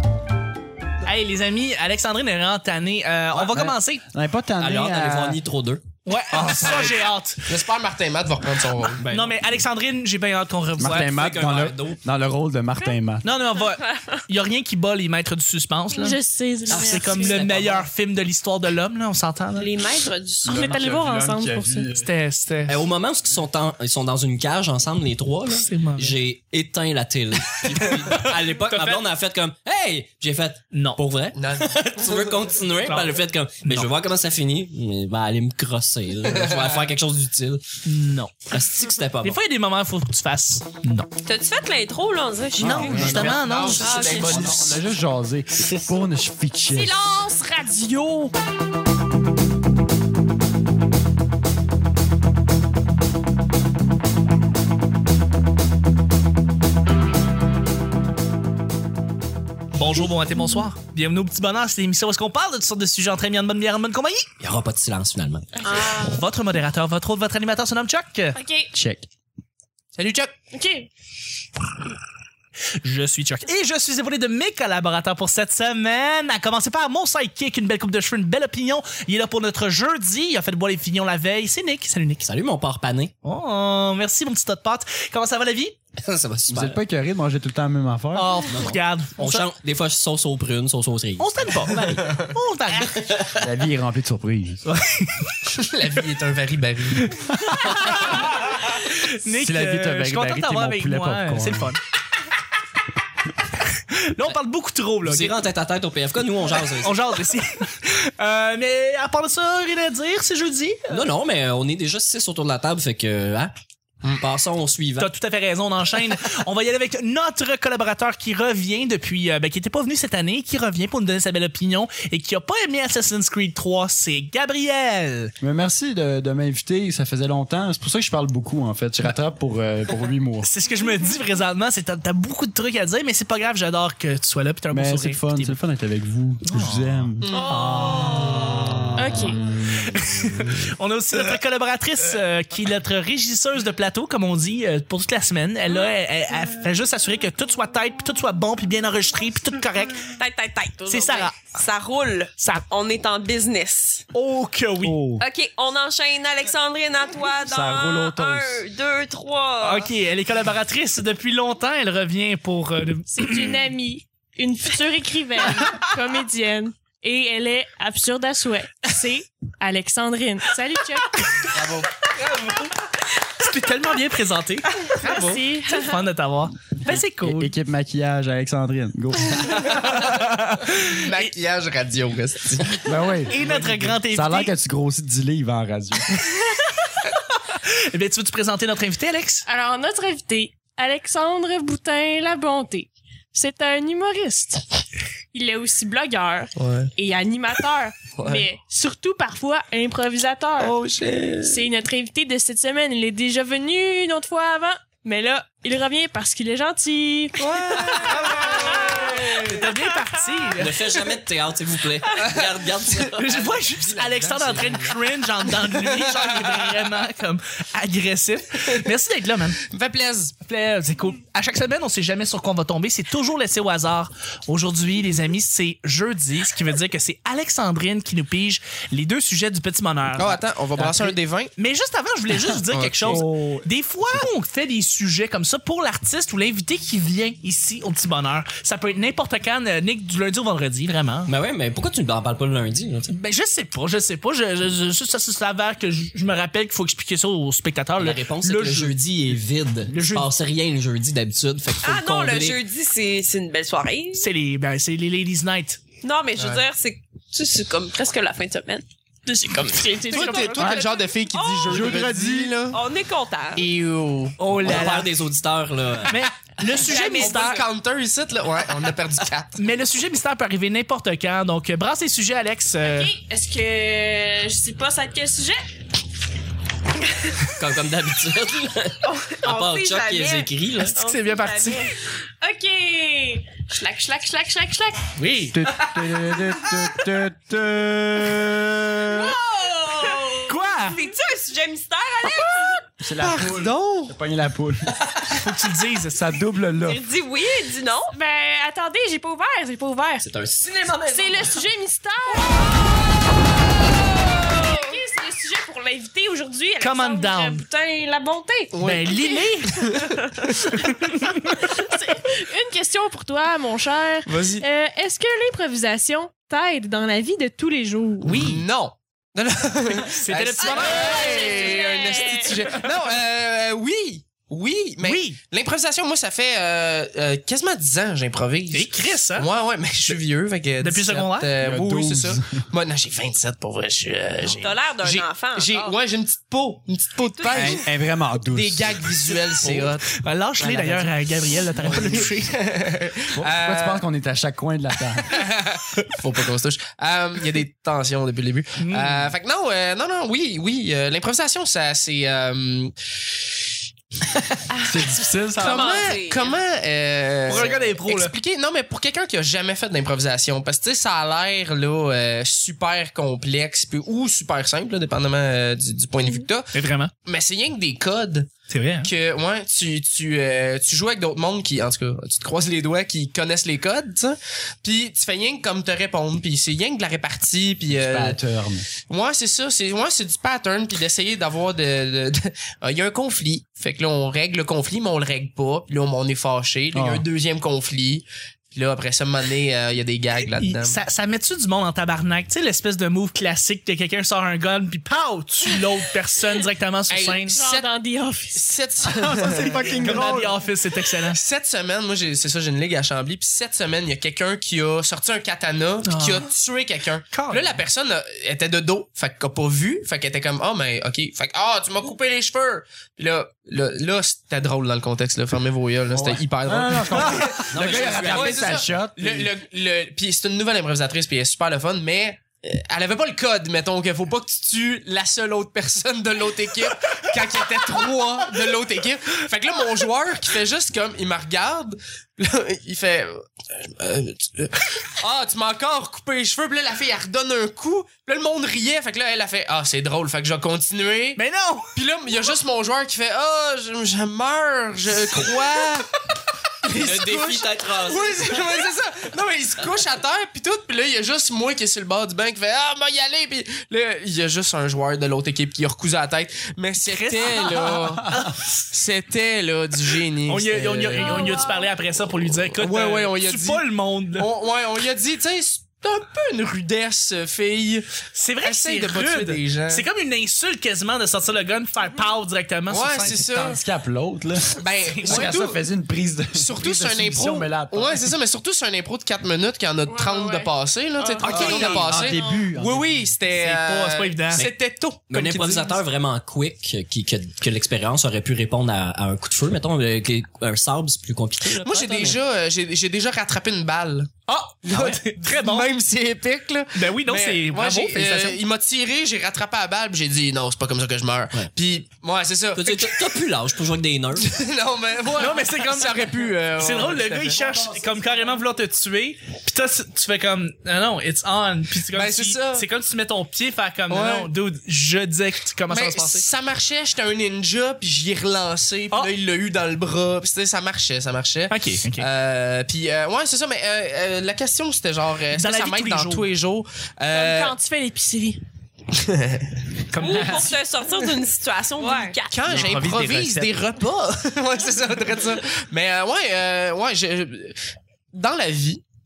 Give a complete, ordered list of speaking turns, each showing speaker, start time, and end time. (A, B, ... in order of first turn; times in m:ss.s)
0:01.0-0:04.0 A
0:03.3-0:05.4 B
0:04.6-0:05.8 C
0:06.0-0:07.4 A
0:06.3-0:07.0 B
0:07.4-0:09.0 D
0:09.0-0:09.4 C
0:09.0-0:11.1 A
0:10.8-0:13.2 B
0:10.9-0:12.0 C
0:13.2-0:16.2 A
0:13.7-0:14.2 E
0:15.9-0:17.4 F
0:16.7-0:19.7 A
0:16.7-0:17.9 C
0:19.5-0:20.7 E
0:20.4-0:21.9 F
0:20.4-0:22.1 B
0:21.9-0:22.8 A
0:22.7-0:37.6 C
0:25.5-0:26.1 A
0:28.1-0:29.0 A
0:30.7-0:31.0 A
0:31.3-0:32.6 D
0:32.8-0:33.9 A
0:36.3-0:36.8 D
0:37.8-0:38.5 A
0:38.5-0:39.4 C
0:39.2-0:41.1 A
0:41.2-0:43.1 E
0:42.6-0:43.4 B
0:42.6-0:44.3 A
0:42.9-0:44.8 D
0:43.7-0:44.5 E
0:44.1-0:47.0 B
0:46.7-0:48.3 F
0:59.7-1:04.3 A
1:04.4-1:05.5 C
1:05.6-1:06.2 F
1:05.6-1:06.2 E
1:06.0-1:08.4 A
1:08.3-1:08.7 F
1:08.7-1:09.1 B
1:10.0-1:10.3 D
1:10.5-1:10.9 F
1:12.8-1:22.3 A
1:22.2-1:23.1 C
1:23.2-1:25.7 A
1:26.0-1:26.8 C
1:26.5-1:28.3 B
1:28.1-1:29.5 A
1:28.5-1:31.8 C
1:31.2-1:33.3 A
1:32.0-1:32.3 D
1:32.9-1:33.4 C
1:33.4-1:34.6 B
1:34.6-1:35.3 A
1:35.5-1:37.2 D
1:37.2-1:41.8 A
1:39.2-1:41.8 B
1:43.9-1:45.4 A
1:45.0-1:47.0 C
1:46.8-1:51.0 A
1:50.9-1:53.5 C
1:54.1-1:55.1 C
1:55.0-2:05.3 A
2:05.4-2:10.5 B
2:10.4-2:15.6 A
2:14.7-2:17.3 B
2:16.4-2:18.9 A
2:17.2-2:17.5 D
2:17.5-2:18.3 F
2:19.0-2:19.4 F
2:19.7-2:30.0 A
2:30.0-2:34.1 E
2:30.8-2:31.4 A
2:34.1-2:35.0 A
2:34.8-2:35.2 B
2:35.2-2:39.9 E
2:37.5-2:38.6 B
2:39.6-2:43.6 A
2:43.1-2:51.5 F
2:51.5-2:51.9 D
2:52.1-2:54.7 A
2:54.9-2:56.0 F
2:55.0-2:55.4 D
2:55.7-2:57.5 A
2:56.9-3:00.7 B
3:00.7-3:01.3 A
3:00.8-3:02.9 D
3:02.8-3:06.4 B
3:03.2-3:04.5 A
3:07.5-3:09.4 A
3:09.4-3:14.6 F
3:15.3-3:20.8 F
3:16.6-3:16.9 D
3:18.1-3:18.5 D
3:20.6-3:21.6 D
3:21.4-3:29.2 F
3:27.4-3:29.6 D
3:29.3-3:30.9 A
3:30.6-3:33.6 C
3:32.2-3:36.8 D
3:33.2-3:39.6 A
3:39.7-3:40.4 D
3:40.4-3:50.4 A
3:50.1-3:51.5 D
3:50.8-3:51.2 B
3:51.6-4:01.3 A
3:52.6-3:53.2 D
3:53.0-3:53.6 B
4:01.3-4:03.1 C
4:03.1-4:08.9 A
4:08.0-4:12.6 C
4:09.9-4:10.3 A
4:11.8-4:14.3 E
4:14.1-4:15.8 A
4:16.0-4:22.0 E
4:16.4-4:16.6 D
4:19.6-4:21.1 F
4:20.1-4:22.8 D
4:20.6-4:20.8 B
4:21.7-4:22.6 B
4:22.7-4:23.7 E
4:23.5-4:24.4 D
4:24.4-4:25.1 A
4:24.5-4:26.2 C
4:26.1-4:27.6 A
4:26.7-4:29.6 D
4:26.8-4:27.6 F
4:29.6-4:33.1 A
4:32.8-4:35.6 F
4:37.4-4:41.0 C
4:39.0-4:41.9 E
4:40.9-4:41.9 A
4:41.0-4:41.8 F
4:42.4-4:45.1 F
4:45.2-4:45.6 A
4:45.5-4:49.3 B
4:49.1-4:52.9 E
4:50.5-4:51.0 A
4:53.0-4:55.0 B
4:53.2-4:54.1 D
4:55.4-4:56.2 A
4:56.1-4:57.0 B
4:56.8-4:58.1 E
4:58.1-5:00.3 F
5:00.2-5:01.5 C
5:01.0-5:03.0 F
5:02.5-5:02.9 E
5:04.2-5:08.7 F
5:06.8-5:07.6 A
5:08.7-5:10.8 D
5:08.8-5:09.8 A
5:10.0-5:10.7 F
5:11.1-5:11.5 A
5:11.4-5:18.5 F
5:14.2-5:14.6 D
5:18.2-5:18.6 A
5:18.2-5:37.8 D
5:20.0-5:21.7 A
5:20.6-5:22.8 F
5:25.0-5:25.4 A
5:28.7-5:29.5 A
5:30.8-5:31.5 A
5:31.6-5:32.6 B
5:34.4-5:36.0 E
5:37.3-5:37.8 E
5:37.4-5:39.1 B
5:38.5-5:40.1 D
5:39.6-5:39.9 C
5:40.1-5:42.6 A
5:40.6-5:41.0 D
5:40.7-5:41.0 B
5:41.8-5:44.0 D
5:43.3-5:45.2 B
5:45.2-5:53.6 D
5:48.8-5:49.3 A
5:54.7-5:56.6 E
5:54.8-5:56.0 B
5:55.6-6:08.5 D
5:57.4-5:58.3 A
6:06.7-6:07.1 A
6:08.7-6:09.1 A
6:09.0-6:18.4 D
6:17.9-6:18.9 B
6:19.1-6:31.0 D
6:26.9-6:27.2 B
6:30.5-6:37.6 A
6:37.1-6:37.9 D
6:37.5-6:38.6 F
6:38.5-6:40.3 D
6:39.0-6:40.5 B
6:40.0-6:41.4 A
6:41.2-7:21.4 D
6:46.0-6:46.5 A
6:47.3-6:47.8 A
6:56.1-6:59.5 B
6:57.7-6:58.9 C
7:21.4-7:21.9 A
7:21.9-7:26.1 D
7:26.8-7:41.7 D
7:26.9-7:28.8 C
7:37.0-7:38.6 A
7:37.8-7:38.5 B
7:40.4-7:44.5 A
7:41.2-7:41.8 F
7:42.7-7:50.1 D
7:48.3-7:53.5 A
7:52.9-7:53.8 D
7:53.3-7:58.3 B
7:54.8-7:55.8 D
7:55.1-7:55.5 A
7:56.5-8:05.5 D
8:00.1-8:02.6 F
8:01.4-8:03.4 B
8:01.5-8:02.1 A
8:03.5-8:04.7 A
8:05.3-8:12.4 C
8:05.4-8:06.0 A
8:11.7-8:23.3 D
8:14.5-8:15.9 A
8:16.9-8:18.6 A
8:22.7-8:24.5 C
8:24.4-8:27.6 D
8:25.3-8:36.4 A
8:27.4-8:28.6 B
8:32.1-8:32.9 D
8:34.1-8:34.5 D
8:35.9-8:47.8 D
8:41.7-8:42.3 A
8:45.5-8:46.5 A
8:47.3-8:48.6 F
8:49.1-8:50.3 D
8:50.1-8:50.8 A
8:50.2-8:52.9 E
8:52.0-8:52.3 F
8:52.5-8:57.8 D
8:52.6-8:53.7 B
8:58.3-8:59.0 D